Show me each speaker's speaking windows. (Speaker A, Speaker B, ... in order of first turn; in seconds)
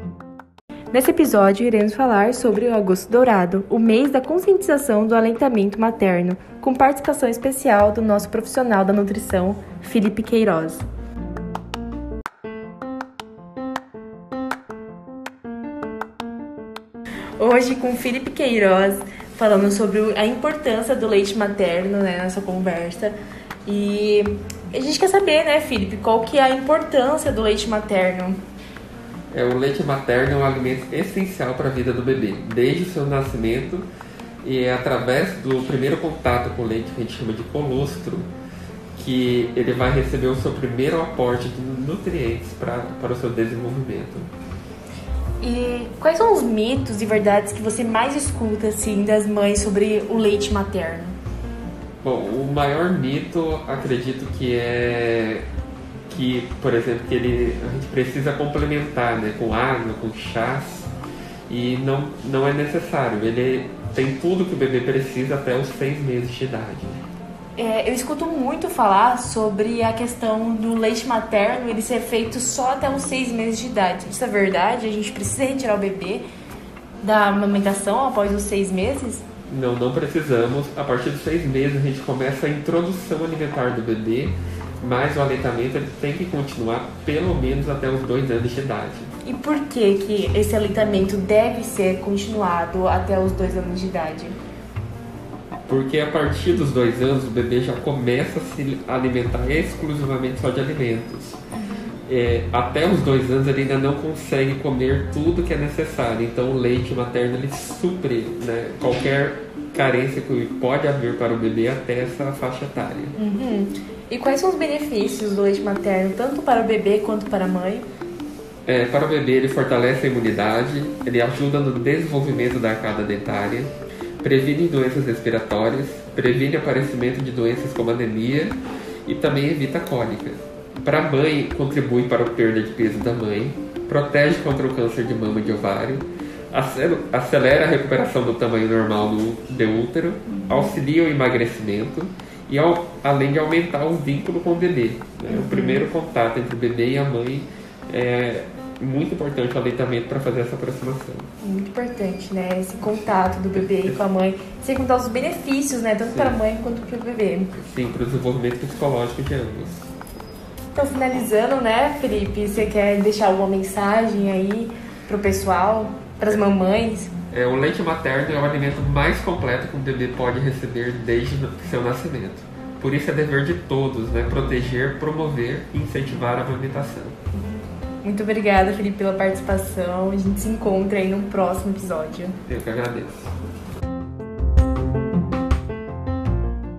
Speaker A: 0.9-10.8, 17.4-28.4, 45.4-51.2, 67.6-76.2, 77.0-79.3, 89.2-94.4, 113.2-117.9, 145.3-145.9, 151.4-157.5, 160.8-167.1, 177.4-182.4
Speaker B: 29.3-33.9, 34.4-38.3, 39.0-44.3, 52.0-55.5, 56.1-60.9, 61.5-67.0, 79.5-89.1, 95.7-101.4, 102.1-113.2, 118.7-151.3, 153.6-154.0, 156.1-156.4, 157.6-159.9, 167.3-177.2, 182.5-183.3